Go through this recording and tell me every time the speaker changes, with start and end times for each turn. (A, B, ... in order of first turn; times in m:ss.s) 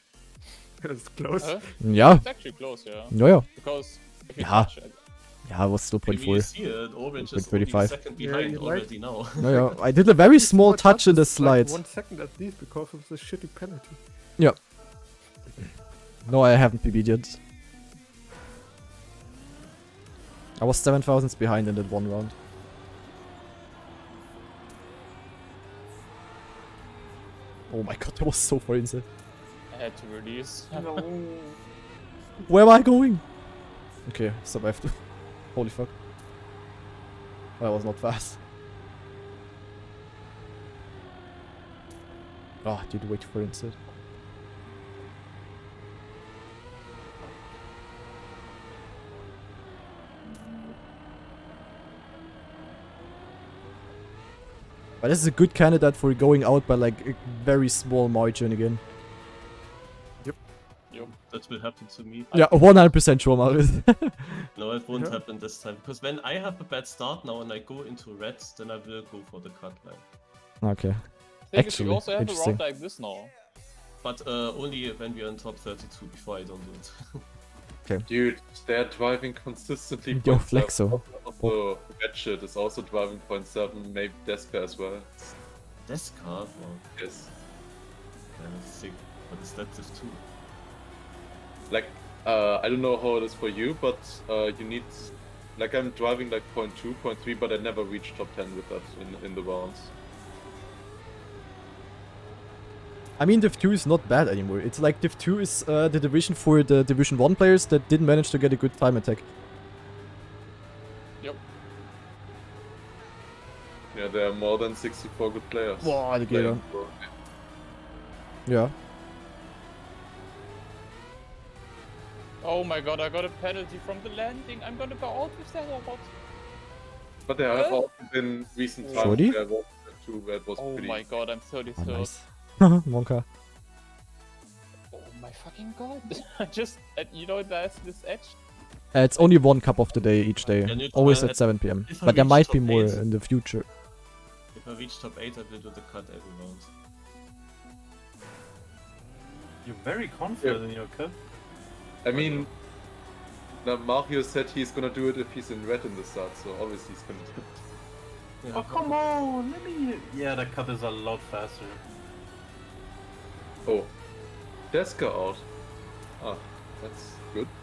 0:00.8-0:01.6 A
0:01.4-0:05.0 B
0:01.8-0:02.2 C
0:03.1-0:03.5 C
0:04.4-0:04.7 C
0:05.4-0:06.5 C
0:06.0-0:09.7 D
0:07.2-0:07.9 C
0:08.2-0:09.7 A
0:09.4-0:11.8 C
0:10.3-0:14.0 A
0:16.2-0:17.4 C
0:20.6-0:22.3 C
0:27.7-0:29.0 C
0:29.7-0:31.0 B
0:30.7-0:31.6 E
0:32.5-0:33.2 C
0:34.0-0:35.0 C
0:35.5-0:35.9 C
0:37.6-0:38.4 C
0:42.6-0:43.8 C
0:55.0-0:58.8 C
1:01.3-1:02.9 D
1:02.3-1:04.5 C
1:04.5-1:10.0 D
1:04.9-1:05.2 A
1:10.6-1:12.6 C
1:11.5-1:13.3 B
1:14.0-1:17.2 D
1:18.1-1:25.3 F
1:20.1-1:21.5 C
1:25.8-1:26.9 D
1:27.0-1:27.3 F
1:28.4-1:30.2 D
1:31.7-1:39.9 F
1:43.2-1:49.2 C
1:53.9-1:57.0 F
1:55.8-1:56.6 C
1:58.4-1:58.7 C
2:02.4-2:06.1 B
2:07.3-2:11.0 F
2:07.5-2:07.8 B
2:08.8-2:09.3 B
2:09.0-2:09.4 C
2:10.6-2:12.1 B
2:11.8-2:13.2 C
2:14.9-2:18.4 B
2:18.9-2:23.7 C
2:20.6-2:23.0 D
2:24.5-2:26.7 D
2:29.6-2:31.2 E
2:32.0-2:32.5 F
2:33.6-2:37.6 F
2:38.4-2:39.0 D
2:38.5-2:41.8 E
2:43.6-2:43.9 F
2:44.7-2:45.4 F
2:46.2-2:47.5 F